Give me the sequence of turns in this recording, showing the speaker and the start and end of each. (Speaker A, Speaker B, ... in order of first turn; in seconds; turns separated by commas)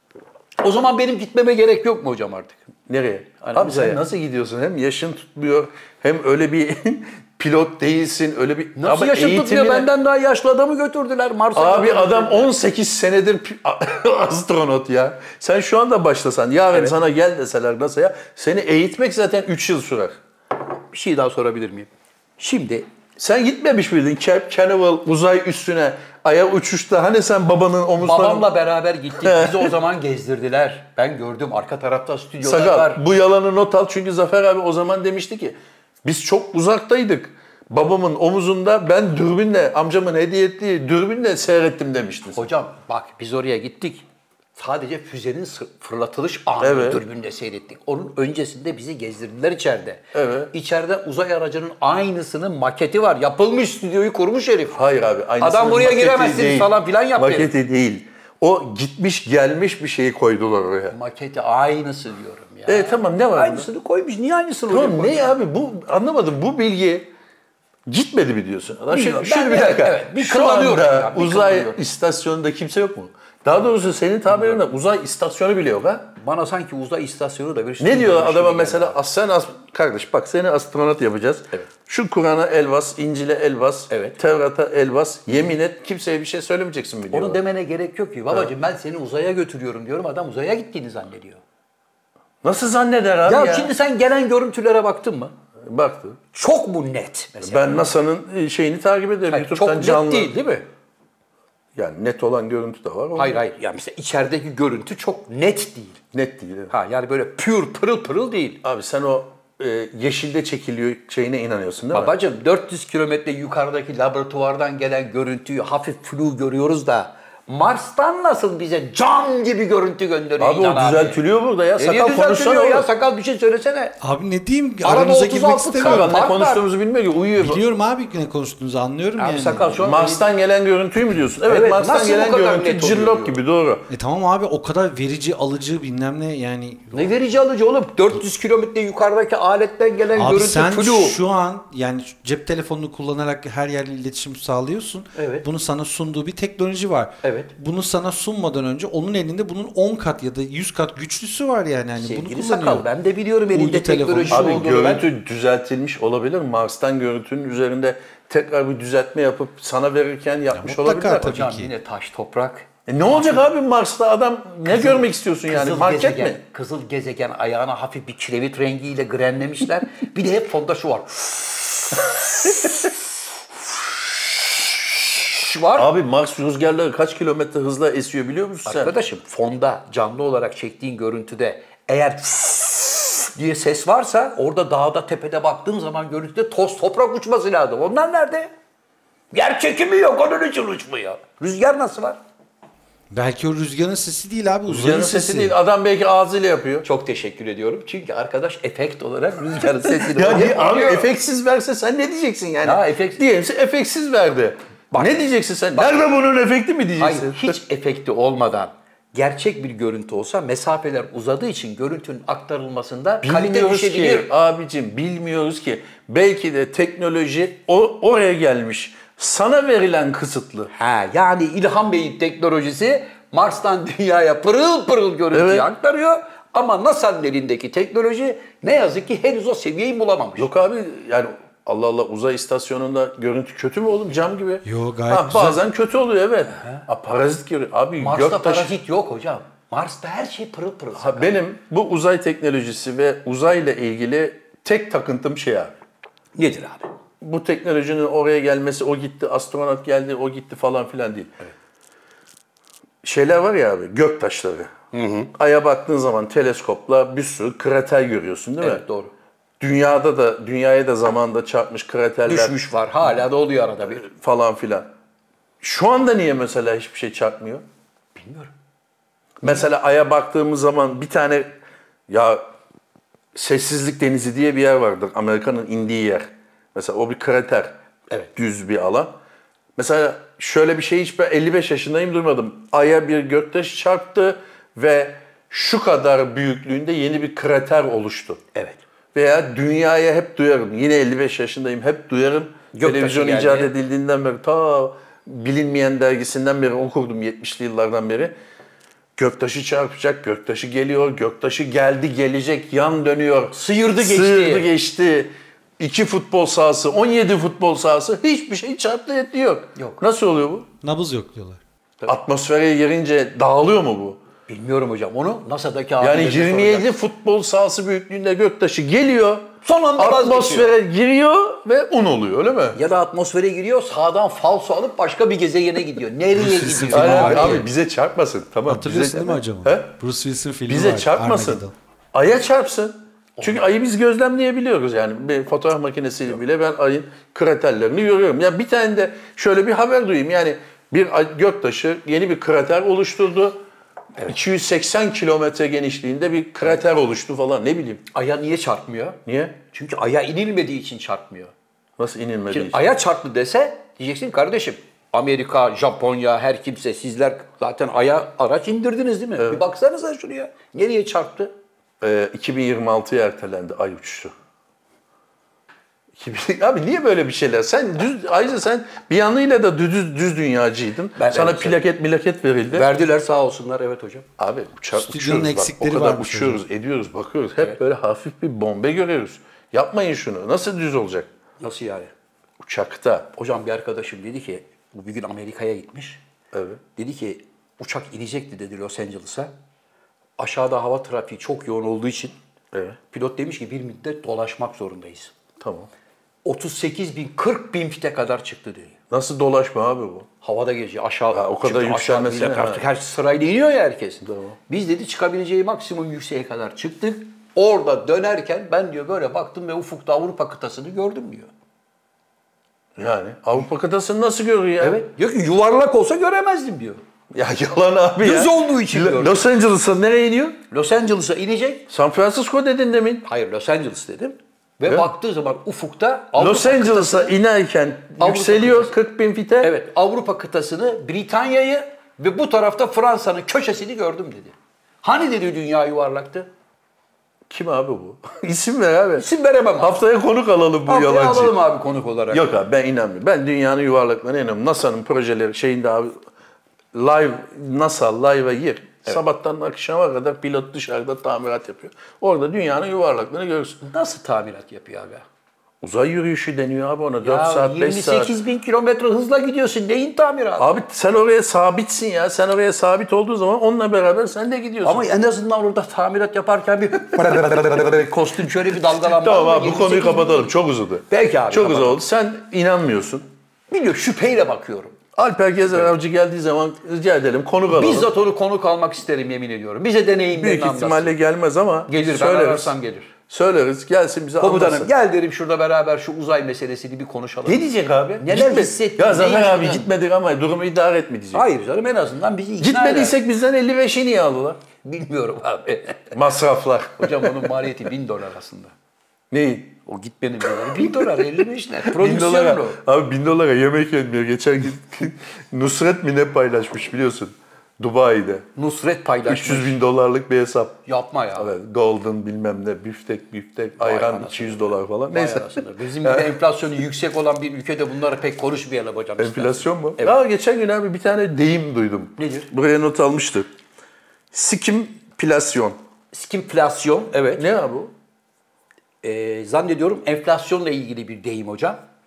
Speaker A: 0.6-2.7, Speaker B: 2.9-9.9, Speaker A: 3.4-4.0, Speaker A: 8.8-12.5, Speaker B: 11.6-20.2, Speaker A: 20.9-22.9, Speaker B: 23.2-28.5, Speaker A: 28.0-33.0, Speaker B: 29.2-29.7, Speaker B: 32.4-42.5, Speaker A: 42.4-44.0, Speaker A: 44.6-54.8, Speaker B: 46.6-47.0, Speaker B: 50.1-50.5, Speaker B: 54.7-61.0, Speaker A: 55.4-57.5, Speaker A: 60.9-65.3, Speaker B: 62.7-63.7, Speaker B: 64.7-67.1, Speaker B: 67.9-76.1, Speaker A: 68.9-71.8, Speaker A: 76.2-79.0, Speaker B: 77.8-87.4, Speaker A: 83.9-84.2, Speaker A: 87.1-91.4, Speaker B: 92.4-93.7, Speaker A: 93.2-95.3, Speaker B: 95.6-96.2, Speaker A: 96.3-97.8, Speaker B: 97.4-100.4, Speaker A: 99.3-100.7, Speaker B: 101.8-103.4, Speaker A: 103.2-106.0, Speaker B: 106.1-106.7, Speaker A: 106.7-108.6, Speaker B: 108.6-112.1, Speaker A: 111.9-121.2, Speaker B: 120.4-122.9, Speaker A: 121.8-124.0, Speaker C: 124.0-126.1, Speaker A: 124.8-126.6, Speaker B: 125.8-127.6, Speaker C: 127.4-129.8, Speaker A: 129.2-130.2, Speaker B: 129.8-133.9, Speaker A: 131.5-133.4, Speaker C: 133.9-137.1, Speaker A: 136.9-141.2, Speaker C: 140.2-152.9, Speaker A: 145.2-145.5, Speaker A: 147.2-147.5, Speaker A: 152.0-155.1, Speaker C: 153.5-154.9, Speaker B: 154.3-161.4, Speaker C: 160.5-161.7, Speaker A: 161.2-163.4, Speaker B: 162.9-166.4, Speaker A: 164.7-172.2, Speaker A: 175.2-175.9, Speaker B: 175.8-178.9, Speaker A: 178.7-188.5, Speaker A: 189.3-192.2, Speaker C: 193.1-195.6, Speaker B: 194.7-196.9, Speaker A: 196.8-201.1, Speaker B: 199.9-207.6, Speaker A: 202.6-203.2, Speaker A: 205.8-206.0, Speaker A: 207.0-214.3, Speaker B: 213.2-220.7, Speaker A: 220.7-230.5, Speaker B: 225.3-225.7, Speaker B: 230.4-238.7, Speaker C: 234.7-235.6, Speaker A: 236.6-236.8, Speaker A: 238.0-241.4, Speaker B: 241.0-245.7, Speaker A: 246.4-246.9, Speaker B: 247.2-251.3, Speaker B: 253.0-254.7, Speaker A: 254.9-255.3, Speaker B: 255.3-258.8, Speaker A: 258.6-259.1, Speaker B: 259.6-262.6, Speaker A: 262.3-264.1, Speaker B: 263.9-264.9, Speaker B: 265.6-267.6, Speaker A: 268.1-268.5, Speaker B: 269.4-271.5, Speaker B: 272.1-272.5, Speaker B: 273.4-277.8, Speaker B: 278.4-279.1, Speaker B: 279.8-288.4, Speaker A: 288.6-288.8, Speaker B: 289.1-298.3, Speaker A: 292.7-293.7, Speaker B: 299.2-310.7, Speaker A: 303.5-304.7, Speaker A: 309.8-310.0, Speaker C: 310.8-311.6, Speaker B: 312.1-314.2, Speaker A: 314.5-316.9, Speaker B: 316.0-322.8, Speaker A: 319.6-320.7, Speaker A: 322.8-327.6, Speaker C: 326.3-327.6, Speaker B: 326.9-329.9, Speaker C: 328.7-331.7, Speaker B: 330.7-343.6, Speaker A: 333.4-333.7, Speaker B: 344.2-348.0, Speaker A: 348.1-349.2, Speaker B: 349.3-349.6, Speaker A: 349.7-351.5, Speaker B: 352.0-352.9, Speaker A: 352.5-361.5, Speaker B: 359.4-359.6, Speaker B: 362.0-364.3, Speaker B: 366.2-372.9, Speaker A: 371.2-371.8, Speaker A: 372.7-374.3, Speaker B: 374.4-381.3, Speaker C: 374.9-376.6, Speaker A: 381.6-382.1, Speaker B: 382.6-383.3, Speaker A: 383.3-386.2, Speaker B: 386.5-386.8, Speaker A: 387.0-389.5, Speaker A: 390.4-392.4, Speaker A: 393.1-395.3, Speaker B: 395.6-395.9, Speaker A: 396.4-398.9, Speaker B: 399.1-400.3, Speaker A: 400.4-411.5, Speaker B: 401.3-402.8, Speaker B: 404.2-404.6, Speaker B: 413.0-415.0, Speaker A: 414.8-417.0, Speaker B: 417.3-420.6, Speaker A: 418.2-419.5, Speaker A: 420.7-421.9, Speaker B: 421.9-423.3, Speaker A: 423.2-427.4, Speaker B: 426.4-429.7, Speaker A: 428.2-428.9, Speaker A: 429.6-436.5, Speaker B: 437.5-439.3, Speaker A: 439.2-440.0, Speaker B: 439.8-441.6, Speaker A: 440.9-442.5, Speaker B: 442.3-446.2, Speaker B: 446.9-453.8, Speaker A: 453.8-455.2, Speaker B: 455.8-458.4, Speaker A: 457.2-460.8, Speaker B: 460.6-465.1, Speaker A: 464.8-470.5, Speaker B: 468.7-473.3, Speaker A: 471.1-472.0, Speaker A: 473.7-475.0, Speaker B: 475.1-478.1, Speaker A: 477.7-481.2, Speaker B: 480.3-482.8, Speaker A: 481.9-483.1, Speaker B: 483.3-484.9, Speaker A: 484.4-487.6, Speaker B: 487.5-491.4, Speaker A: 488.2-489.9, Speaker A: 491.3-493.2, Speaker B: 492.6-494.6, Speaker A: 494.8-496.1, Speaker B: 496.1-497.5, Speaker A: 497.0-498.7, Speaker B: 499.3-499.8, Speaker A: 499.9-502.8, Speaker B: 500.6-501.3, Speaker B: 501.9-508.5, Speaker A: 508.6-509.7, Speaker B: 509.3-510.8, Speaker A: 510.9-511.5, Speaker B: 511.4-516.3, Speaker A: 513.8-520.2, Speaker B: 519.2-523.5, Speaker A: 522.2-522.5, Speaker B: 524.3-525.8, Speaker A: 526.1-527.5, Speaker B: 527.4-527.9, Speaker A: 529.0-531.8